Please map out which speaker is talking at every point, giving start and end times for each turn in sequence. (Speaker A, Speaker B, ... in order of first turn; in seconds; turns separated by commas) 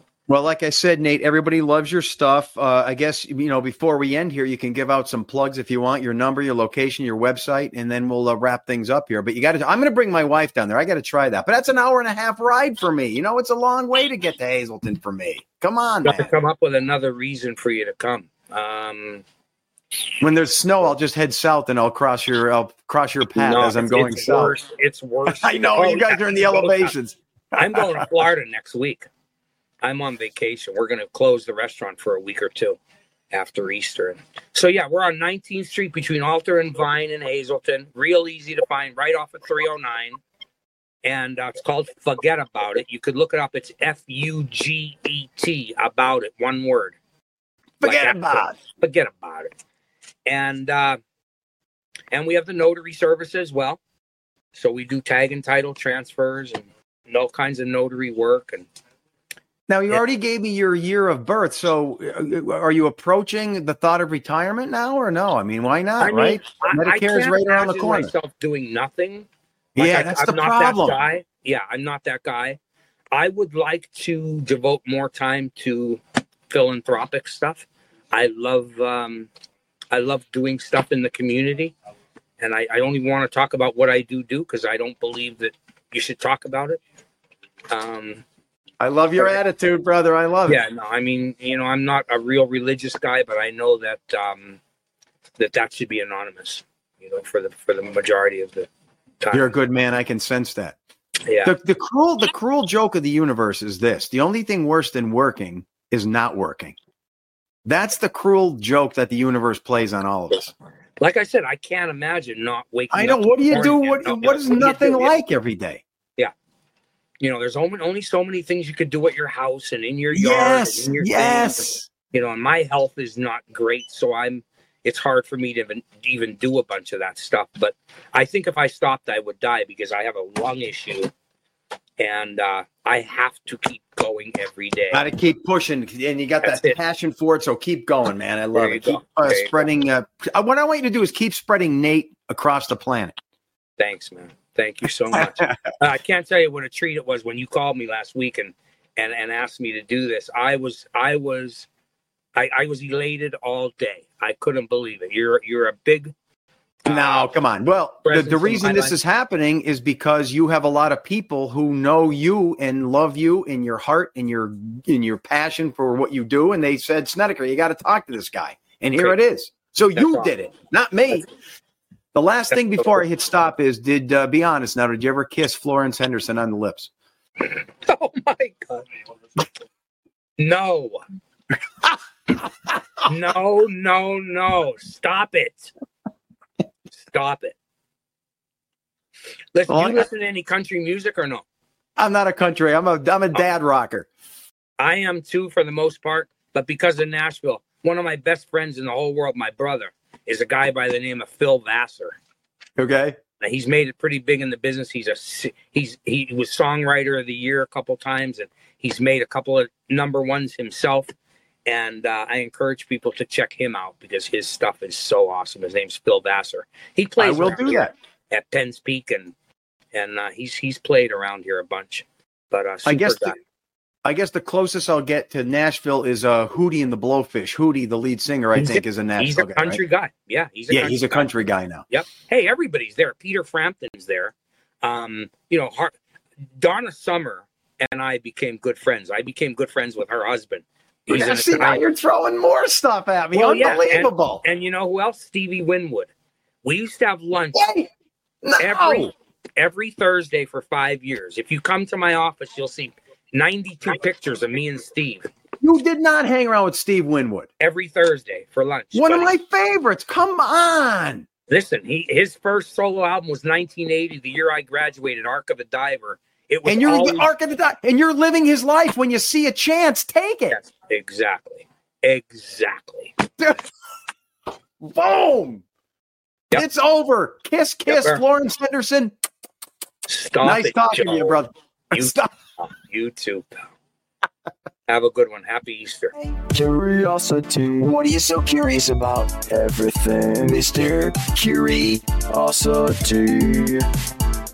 Speaker A: 0.3-16.2, Speaker B: 16.0-19.2, Speaker A: 20.2-24.5, Speaker B: 23.4-26.9, Speaker A: 25.3-28.0, Speaker B: 27.6-29.1, Speaker B: 29.8-32.8, Speaker B: 33.3-40.2, Speaker B: 41.0-47.0, Speaker A: 47.8-48.5, Speaker B: 47.8-49.5, Speaker B: 50.3-51.0, Speaker B: 52.1-53.8, Speaker B: 54.5-58.7, Speaker A: 59.7-68.1, Speaker B: 66.0-72.6, Speaker A: 69.8-71.0, Speaker B: 73.1-79.3, Speaker B: 79.9-81.7, Speaker B: 82.4-86.8, Speaker B: 87.7-88.2, Speaker A: 88.8-90.6, Speaker B: 90.5-94.6, Speaker B: 95.4-98.7, Speaker B: 99.2-99.5, Speaker A: 99.3-100.8, Speaker B: 101.3-101.5, Speaker A: 101.4-106.8, Speaker A: 107.6-110.5, Speaker B: 111.0-115.1, Speaker A: 112.9-115.8, Speaker B: 117.2-131.1, Speaker A: 120.1-121.9, Speaker B: 132.0-135.0, Speaker A: 134.9-143.2, Speaker B: 136.4-136.8, Speaker B: 138.5-139.7, Speaker B: 143.8-151.7, Speaker A: 145.2-145.5, Speaker B: 152.3-156.1, Speaker B: 156.8-157.3, Speaker A: 156.9-171.3, Speaker B: 158.1-158.9, Speaker B: 169.9-170.3, Speaker A: 172.1-176.9, Speaker B: 172.6-173.0, Speaker B: 177.4-178.9, Speaker B: 180.4-181.0, Speaker A: 181.8-182.7, Speaker B: 183.1-185.7, Speaker B: 186.9-187.6, Speaker B: 189.5-191.4, Speaker A: 189.7-190.1, Speaker A: 192.0-194.1, Speaker B: 194.8-202.2, Speaker A: 202.8-203.2, Speaker B: 203.4-211.1, Speaker B: 211.7-219.3, Speaker A: 217.2-217.9, Speaker B: 219.9-223.4, Speaker A: 222.8-223.4, Speaker A: 224.0-229.8, Speaker B: 228.6-231.3, Speaker A: 230.7-231.8, Speaker B: 231.9-236.0, Speaker B: 236.6-241.8, Speaker A: 241.1-244.4, Speaker B: 243.3-246.1, Speaker B: 246.6-247.6, Speaker A: 247.6-247.9, Speaker A: 248.4-249.1, Speaker B: 248.6-255.3, Speaker A: 255.6-257.5, Speaker B: 257.6-259.3, Speaker A: 258.9-261.3, Speaker B: 261.5-267.3, Speaker A: 266.6-270.6, Speaker B: 270.5-273.2, Speaker A: 274.8-275.6, Speaker A: 276.5-279.1, Speaker B: 277.9-278.2, Speaker B: 280.1-281.4, Speaker A: 280.4-282.3, Speaker B: 281.9-283.7, Speaker B: 284.9-286.1, Speaker C: 286.2-293.9